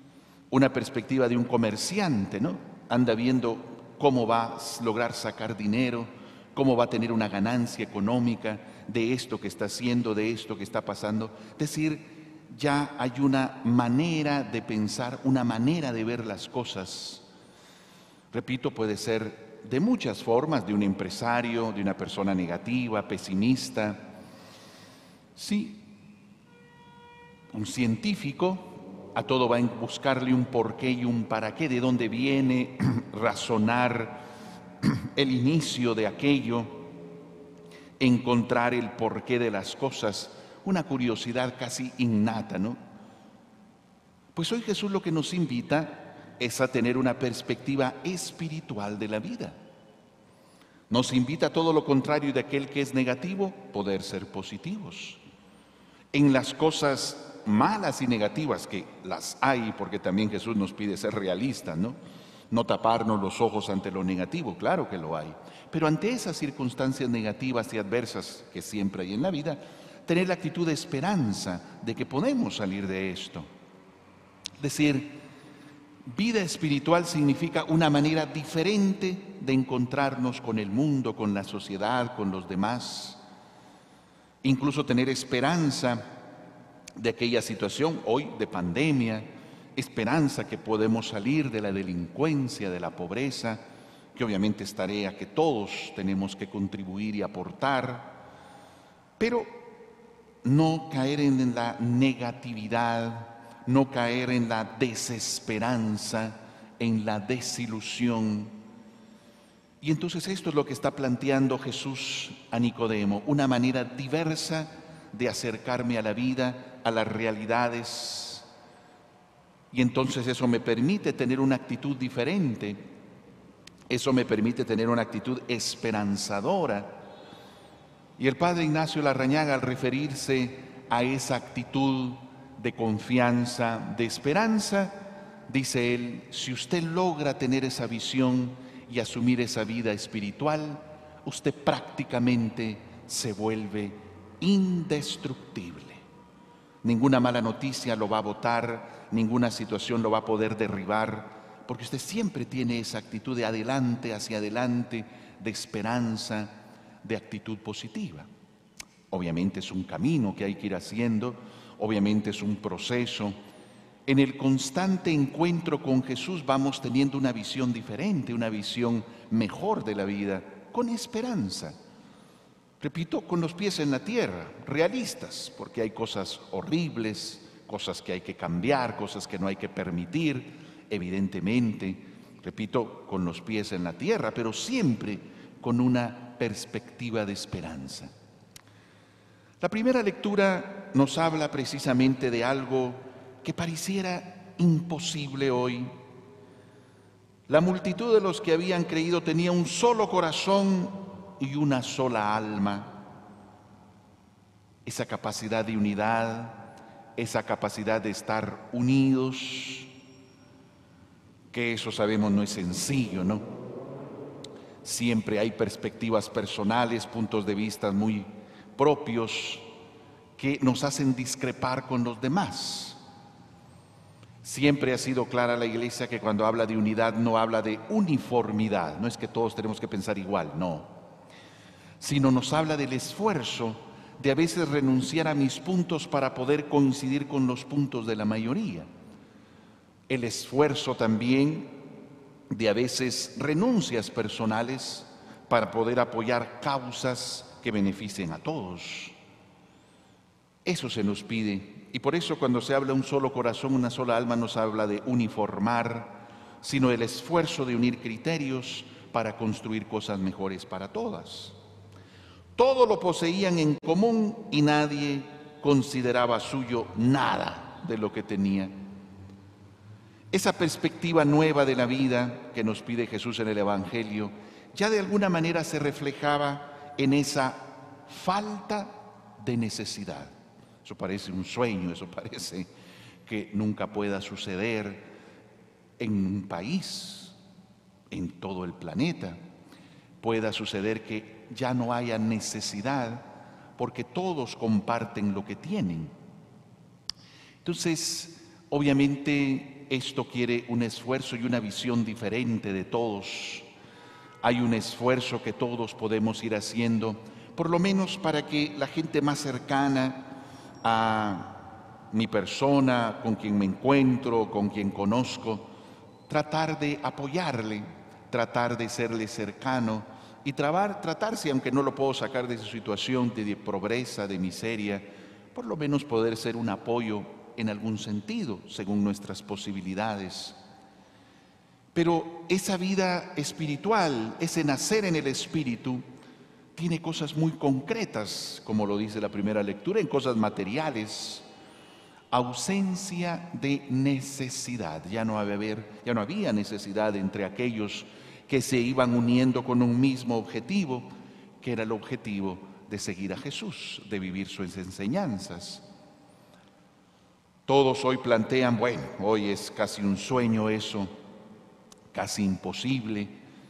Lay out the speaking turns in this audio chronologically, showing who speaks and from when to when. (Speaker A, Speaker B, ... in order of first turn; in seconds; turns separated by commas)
Speaker A: 0.5-17.3, Speaker A: 18.3-24.1, Speaker A: 25.4-25.9, Speaker A: 27.5-34.2, Speaker A: 34.8-36.8, Speaker A: 38.0-42.8, Speaker A: 44.4-49.6, Speaker A: 50.9-55.2, Speaker A: 56.1-62.0, Speaker A: 62.5-73.5, Speaker A: 74.6-75.2, Speaker A: 76.1-83.2, Speaker A: 84.4-86.1, Speaker A: 87.0-98.2, Speaker A: 99.2-99.7, Speaker A: 100.4-108.6, Speaker A: 109.8-118.5, Speaker A: 119.7-122.8, Speaker A: 123.9-127.0, Speaker A: 128.2-146.0, Speaker A: 146.8-158.3, Speaker A: 159.1-163.4, Speaker A: 164.1-171.8, Speaker A: 172.8-188.1, Speaker A: 189.6-196.0, Speaker A: 197.5-203.0, Speaker A: 204.8-209.9, Speaker A: 211.5-213.5, Speaker A: 214.8-219.7, Speaker A: 220.4-223.0, Speaker A: 224.4-230.9, Speaker A: 232.0-238.9, Speaker A: 240.1-241.8, Speaker A: 242.5-249.2, Speaker A: 250.7-261.6, Speaker A: 262.6-268.8, Speaker A: 270.3-282.7, Speaker A: 283.3-285.1, Speaker A: 286.0-287.4, Speaker A: 288.1-289.4, Speaker A: 290.2-296.2, Speaker A: 297.6-303.7, Speaker A: 304.4-315.7, Speaker A: 316.3-330.6, Speaker A: 331.9-336.1, Speaker A: 336.8-341.5, Speaker A: 342.3-355.9, Speaker A: 357.7-361.1, Speaker A: 362.1-363.4